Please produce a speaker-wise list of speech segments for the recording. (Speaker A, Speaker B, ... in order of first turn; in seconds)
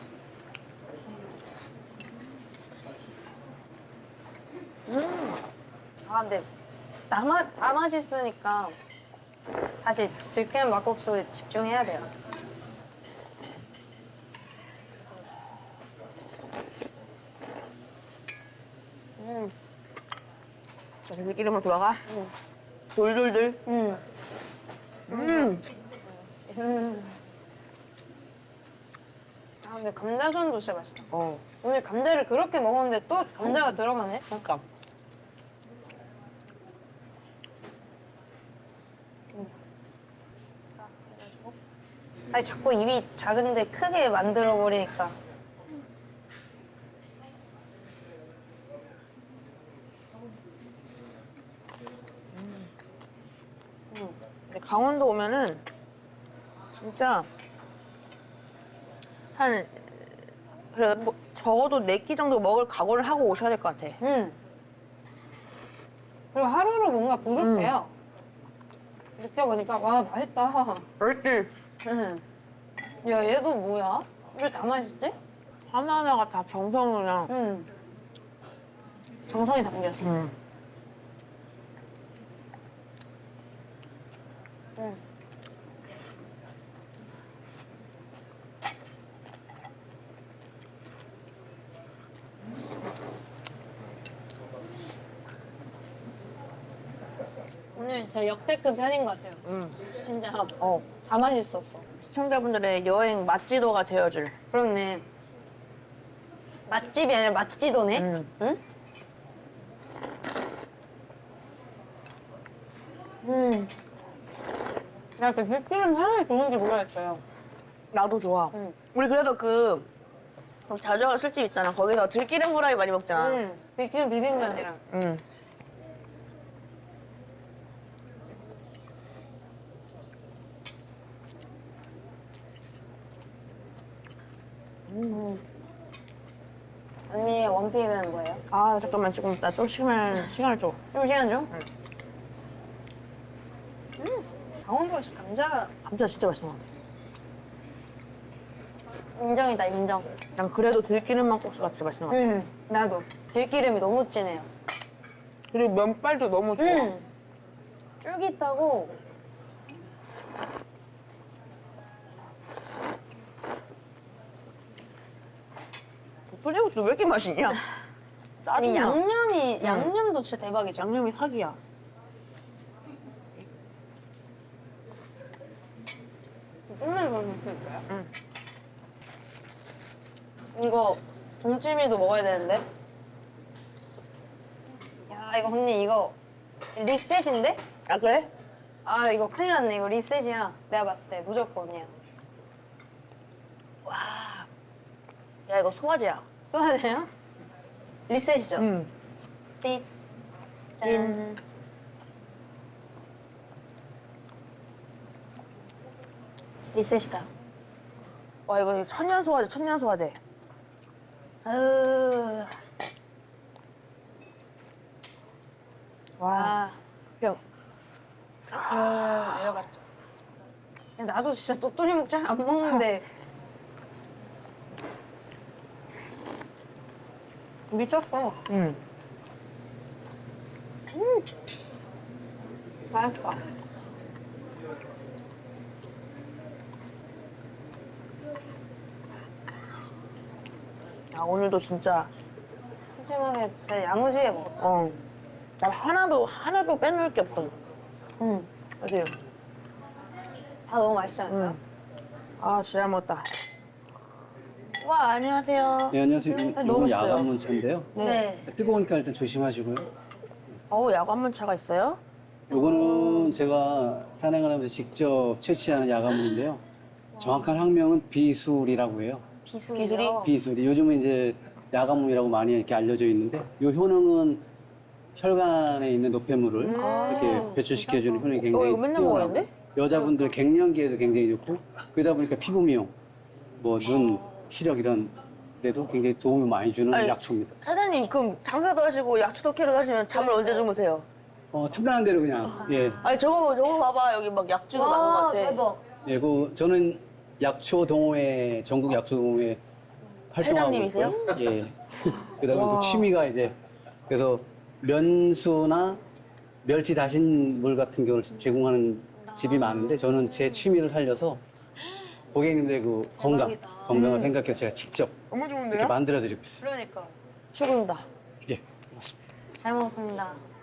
Speaker A: 4.9-5.4, 21.1-22.0, 22.9-23.6, 25.1-25.6, 31.1-31.4, 33.4-33.8, 34.3-34.6, 52.3-52.7, 54.5-55.6, 56.8-57.3, 59.4-60.2, 60.7-64.0, 67.4-67.8, 71.0-71.5, 75.7-77.3, 80.0-80.3, 99.4-99.8, 100.6-100.9, 102.0-104.3, 107.9-108.3, 117.9-119.9, 120.7-123.4, 124.9-125.2, 134.9-135.2, 138.5-140.8, 145.8-146.7, 150.4-152.3, 155.5-156.9, 166.3-167.6, 168.4-169.0, 169.6-169.9, 170.8-171.6, 187.9-188.3, 193.9-194.4, 195.5-196.2, 198.6-198.9, 200.8-201.4, 208.5-210.2, 216.2-216.6, 218.5-219.6, 228.5-228.8, 241.1-242.1, 244.6-245.0, 245.6-247.5, 248.8-249.1, 251.3-251.6, 252.4-253.3, 254.8-257.3, 257.9-258.2, 260.7-263.4, 269.7-270.3, 276.6-277.5, 278.5-279.5, 286.9-291.1, 293.0-295.6, 300.4-301.5, 302.5-303.1, 315.3-316.0, 317.5-318.1
Speaker B: 6.1-6.5, 7.1-8.8, 9.8-12.1, 19.2-19.5, 22.1-22.3, 23.7-24.0, 25.1-27.2, 29.6-31.1, 31.6-34.2, 40.8-41.5, 42.3-45.1, 53.9-54.2, 64.0-64.4, 66.3-67.9, 69.2-70.9, 71.8-72.2, 73.0-75.2, 77.3-77.7, 79.3-80.1, 97.8-101.8, 104.5-105.0, 106.7-108.6, 113.2-113.7, 115.2-117.2, 123.1-124.8, 135.1-135.4, 137.1-138.4, 140.9-141.5, 144.0-145.7, 149.2-150.2, 152.1-154.5, 156.6-157.1, 158.0-158.9, 168.6-170.9, 176.7-177.8, 180.6-182.7, 185.1-186.2, 186.8-187.6, 188.8-191.9, 193.9-194.3, 196.5-197.1, 198.1-198.7, 200.8-201.2, 206.7-207.3, 211.4-212.6, 216.3-216.8, 218.7-219.8, 221.0-223.0, 227.7-228.4, 230.9-231.3, 232.9-233.4, 242.9-244.6, 248.2-248.5, 250.7-251.6, 258.0-258.5, 262.5-263.1, 267.2-267.4, 269.4-270.3, 276.6-278.3, 290.1-290.7, 292.5-293.2, 294.7-295.8, 309.2-310.7, 313.2-314.4, 316.6-317.1, 319.6-320.4
Speaker C: 255.9-257.9, 258.5-259.9, 262.5-266.6, 267.2-269.2, 270.2-274.4, 275.2-282.9, 283.6-287.6, 291.5-293.0, 296.1-299.6, 300.3-303.6, 304.1-306.0, 306.6-311.4, 312.3-315.2, 315.7-316.6, 318.5-319.2